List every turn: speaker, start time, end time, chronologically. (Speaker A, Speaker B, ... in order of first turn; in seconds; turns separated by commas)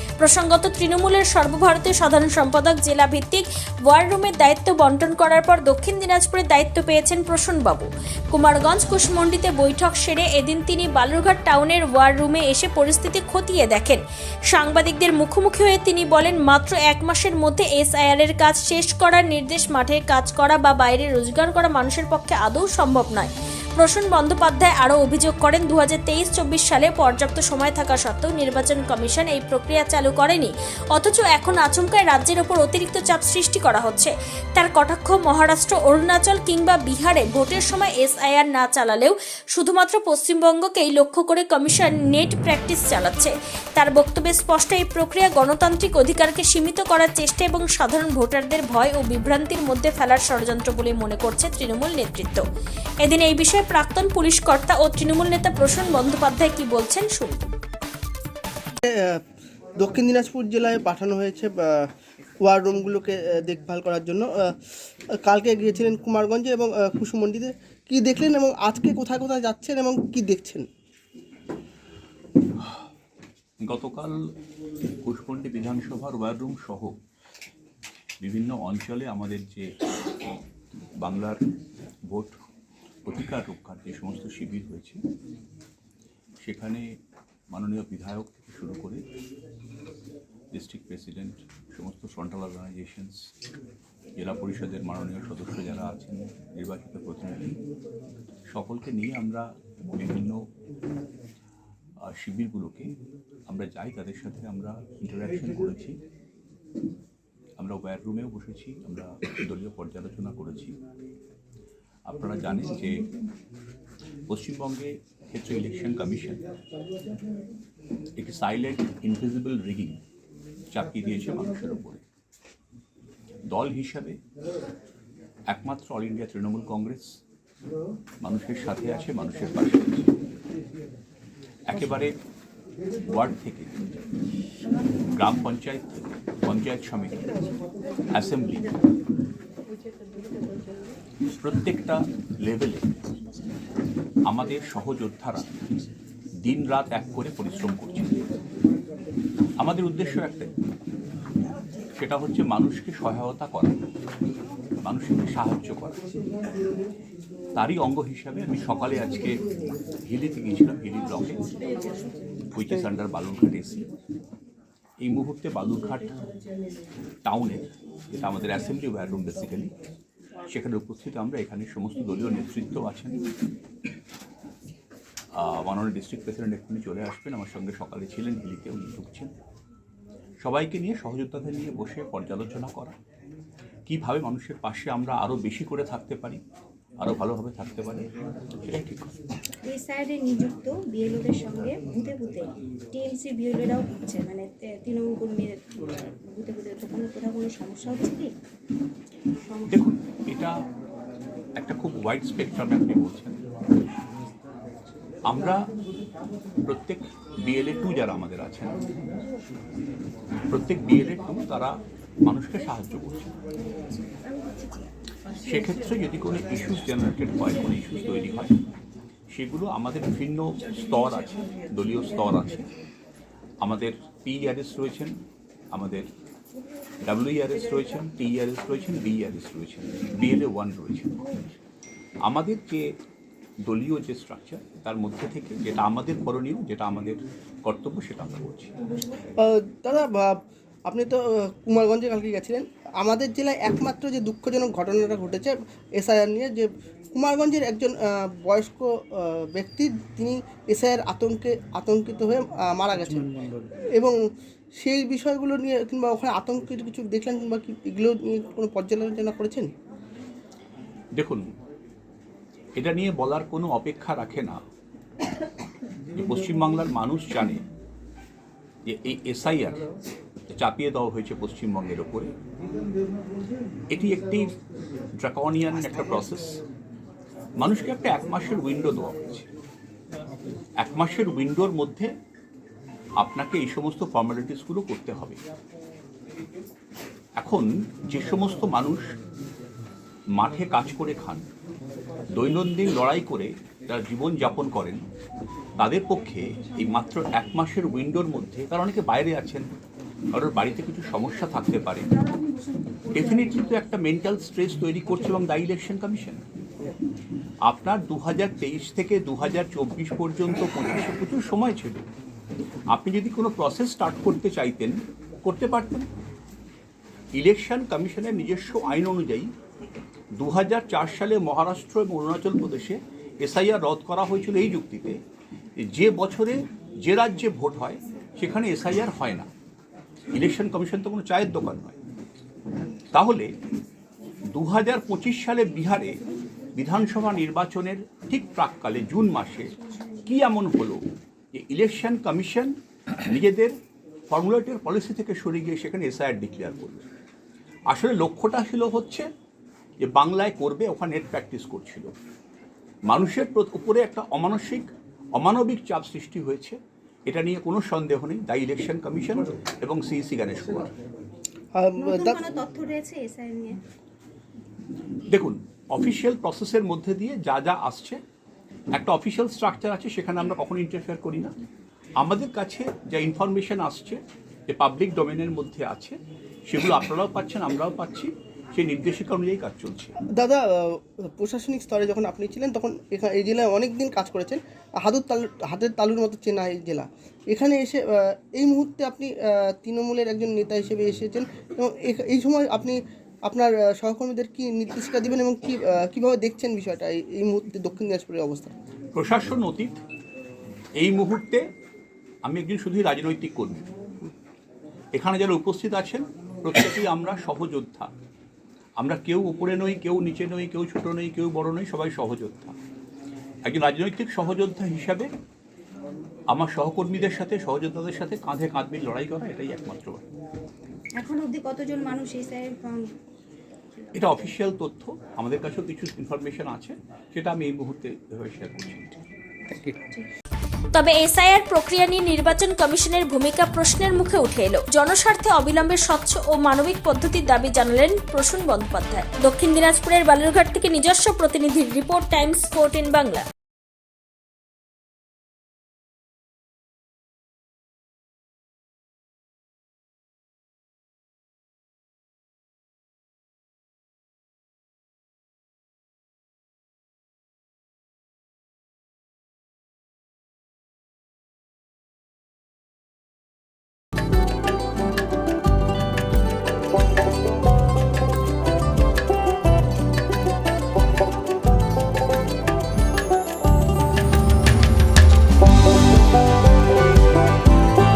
Speaker A: 0.2-52.4, Speaker A: 53.0-57.5, Speaker B: 58.8-59.2, Speaker B: 59.8-61.9, Speaker B: 62.4-64.5, Speaker B: 65.2-70.7, Speaker C: 73.6-74.2, Speaker C: 75.0-76.9, Speaker C: 78.2-79.7, Speaker C: 81.0-81.4, Speaker C: 82.1-82.3, Speaker C: 83.0-85.0, Speaker C: 86.4-86.8, Speaker C: 87.5-89.0, Speaker C: 90.5-93.2, Speaker C: 94.2-97.6, Speaker C: 98.5-100.4, Speaker C: 102.1-102.9, Speaker C: 103.5-106.0, Speaker C: 107.6-110.7, Speaker C: 112.0-113.1, Speaker C: 114.3-116.4, Speaker C: 118.2-120.0, Speaker C: 120.7-122.0, Speaker C: 123.5-124.2, Speaker C: 125.5-127.2, Speaker C: 128.2-130.1, Speaker C: 131.7-132.2, Speaker C: 133.1-134.0, Speaker C: 135.1-137.3, Speaker C: 138.1-138.7, Speaker C: 141.4-142.8, Speaker C: 144.2-145.5, Speaker C: 146.4-148.1, Speaker C: 149.6-150.5, Speaker C: 151.9-153.8, Speaker C: 154.8-156.0, Speaker C: 157.5-159.4, Speaker C: 160.0-161.5, Speaker C: 162.5-163.9, Speaker C: 165.0-166.2, Speaker C: 167.2-169.7, Speaker C: 170.5-173.2, Speaker C: 175.3-179.3, Speaker C: 180.4-183.0, Speaker C: 183.8-186.4, Speaker C: 187.0-188.1, Speaker C: 188.6-189.1, Speaker D: 189.6-198.3, Speaker D: 199.4-199.9, Speaker C: 199.7-200.6, Speaker C: 201.6-203.4, Speaker C: 205.2-205.7, Speaker C: 206.7-208.8, Speaker C: 210.5-213.3, Speaker C: 215.4-218.5, Speaker C: 219.3-222.7, Speaker C: 223.6-225.2, Speaker C: 225.7-226.1, Speaker C: 227.0-231.4, Speaker C: 232.2-232.9, Speaker C: 233.6-238.7, Speaker D: 238.9-239.2, Speaker B: 239.4-254.2, Speaker B: 254.8-259.7, Speaker C: 261.1-261.4, Speaker C: 262.8-264.6, Speaker C: 266.1-267.6, Speaker C: 268.9-269.8, Speaker C: 270.5-272.3, Speaker C: 273.9-274.5, Speaker C: 275.2-276.6, Speaker C: 277.6-279.5, Speaker C: 280.8-282.1, Speaker C: 283.2-285.4, Speaker C: 287.4-289.1, Speaker C: 290.4-291.4, Speaker C: 292.3-295.0, Speaker C: 295.8-299.7, Speaker C: 300.3-302.1, Speaker D: 302.3-302.9, Speaker C: 303.1-306.4, Speaker C: 307.6-312.1, Speaker C: 312.9-316.1, Speaker C: 317.3-319.5, Speaker C: 320.4-325.2, Speaker C: 325.8-329.5, Speaker C: 330.3-332.0, Speaker C: 333.1-333.5, Speaker C: 334.5-336.2, Speaker C: 336.8-343.7, Speaker C: 344.3-347.1, Speaker C: 347.9-349.3, Speaker C: 350.0-352.1, Speaker C: 353.1-360.9, Speaker B: 361.8-362.4, Speaker D: 362.0-363.8, Speaker C: 365.3-368.2, Speaker C: 368.9-371.5, Speaker C: 372.2-380.1, Speaker B: 380.3-398.7, Speaker C: 399.1-400.0, Speaker C: 401.0-401.6, Speaker C: 402.4-403.9, Speaker C: 405.1-408.1, Speaker C: 409.0-412.8, Speaker C: 413.6-415.3, Speaker C: 416.5-420.2, Speaker D: 421.2-423.1, Speaker C: 424.1-429.2, Speaker A: 430.9-443.5